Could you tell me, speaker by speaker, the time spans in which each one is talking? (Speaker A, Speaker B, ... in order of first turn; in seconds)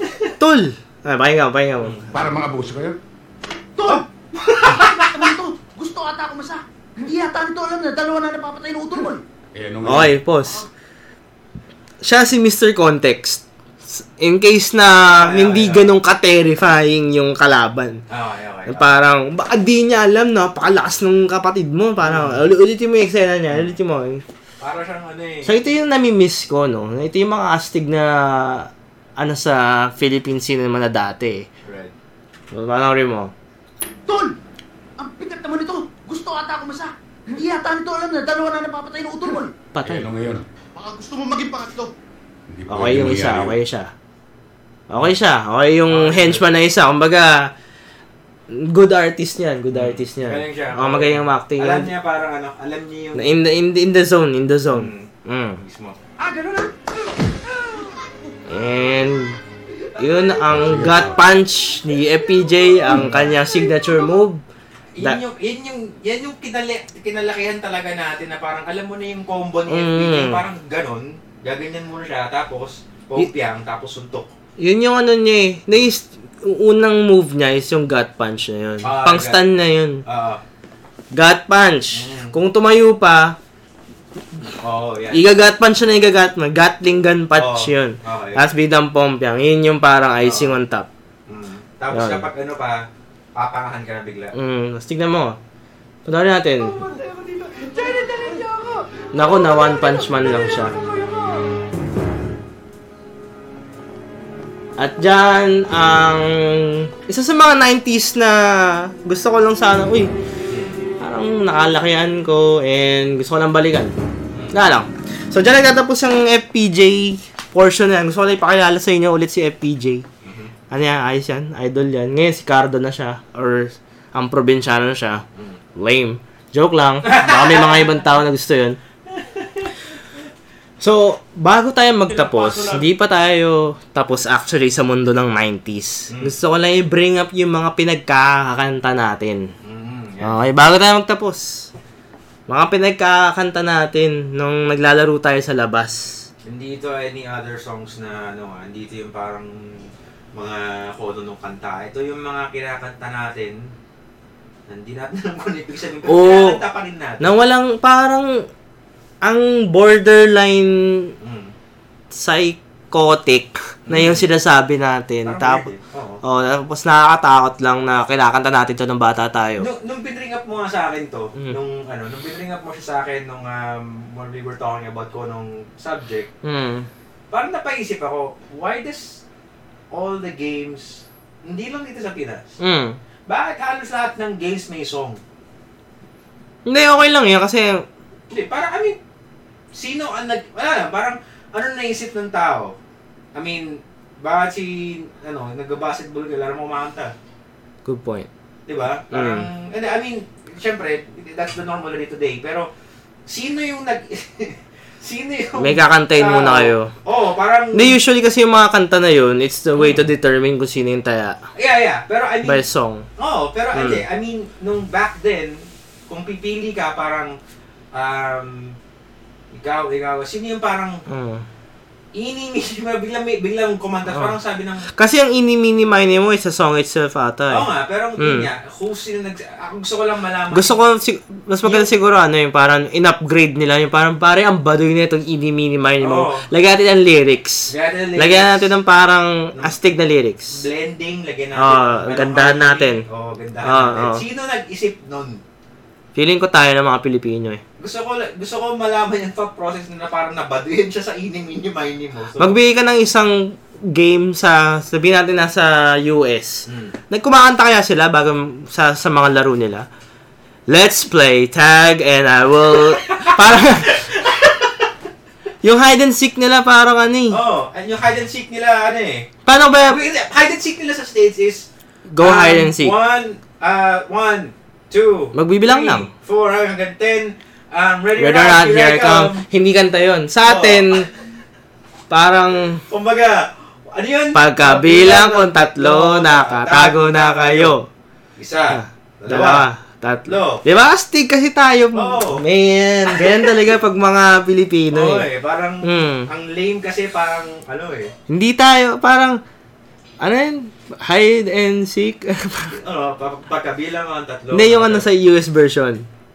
Speaker A: 0.4-2.1, 9.8-10.7, 12.0-18.0, 18.7-24.2, 25.4-31.5, 32.5-33.3, 39.7-40.1, 42.7-43.9, 44.9-47.5, 48.5-51.9, 53.1-55.6, 58.5-59.4, 60.0-64.4, 69.7-70.4, 74.6-80.0, 81.1-83.4, 85.1-90.9, 91.9-92.3, 94.3-95.4, 96.1-96.8, 99.1-100.7, 104.8-110.1, 111.0-113.9, 114.5-120.0, 120.7-125.2, 125.8-128.8, 130.8-139.5, 140.2-141.7, 142.5-146.2, 156.1-156.6, 157.2-158.4, 159.2-161.1, 162.1-165.7, 166.2-169.7, 176.4-176.9, 182.6-183.0, 186.7-187.8, 197.8-198.3, 199.1-199.5, 205.6-206.9, 207.7-211.4, 212.4-213.1, 213.7-214.0, 221.1-221.4, 224.9-227.7, 228.2-228.5, 230.5-240.6, 241.6-243.0, 243.6-244.2, 246.2-247.6, 252.4-259.9, 260.7-264.0, 265.6-267.4, 269.5-270.0, 272.1-272.9, 275.3-276.1, 278.2-281.1, 282.1-282.8, 284.3-287.9, 288.7-295.2, 295.8-296.3, 298.3-299.4, 300.2-302.8, 304.5-306.1
Speaker B: 1.8-2.0, 4.5-5.3, 15.1-16.0, 18.1-18.9, 22.0-22.4, 24.6-25.6, 31.6-31.9, 45.9-46.5, 49.7-53.3, 54.7-56.0, 64.9-74.3, 78.8-79.5, 80.0-80.4, 81.9-82.3, 84.5-85.2, 87.3-88.4, 90.2-90.6, 91.3-94.3, 110.5-110.8, 120.2-120.5, 127.0-128.0, 129.1-129.8, 132.1-132.9, 136.1-136.3, 139.6-140.4, 146.4-153.7, 154.7-157.3, 161.2-161.5, 163.9-164.2, 165.2-166.2, 169.6-176.3, 177.3-179.2, 179.9-182.5, 183.3-185.2, 188.3-189.0, 189.7-192.8, 193.3-197.1, 198.7-202.7, 203.3-208.0, 209.8-210.0, 211.6-212.6, 213.2-217.4, 217.9-218.8, 219.5-221.0, 222.2-224.9, 227.5-230.8, 231.6-231.9, 236.0-236.4, 237.7-238.7, 240.5-245.4, 247.8-252.6, 256.7-256.9, 262.7-264.9, 267.3-269.3, 269.9-271.7, 272.2-279.4, 280.4-281.0, 282.9-287.8, 288.4-289.7, 290.3-290.6, 291.9-292.4, 293.1-293.6, 294.9-298.1, 302.7-305.1
Speaker C: 2.1-3.0, 9.5-10.2, 39.8-40.5, 42.5-43.6, 60.5-61.3
Speaker D: 3.8-9.2, 34.1-34.4, 35.0-39.5, 40.8-41.9, 56.2-58.0, 60.0-61.0, 61.9-64.2, 96.6-101.5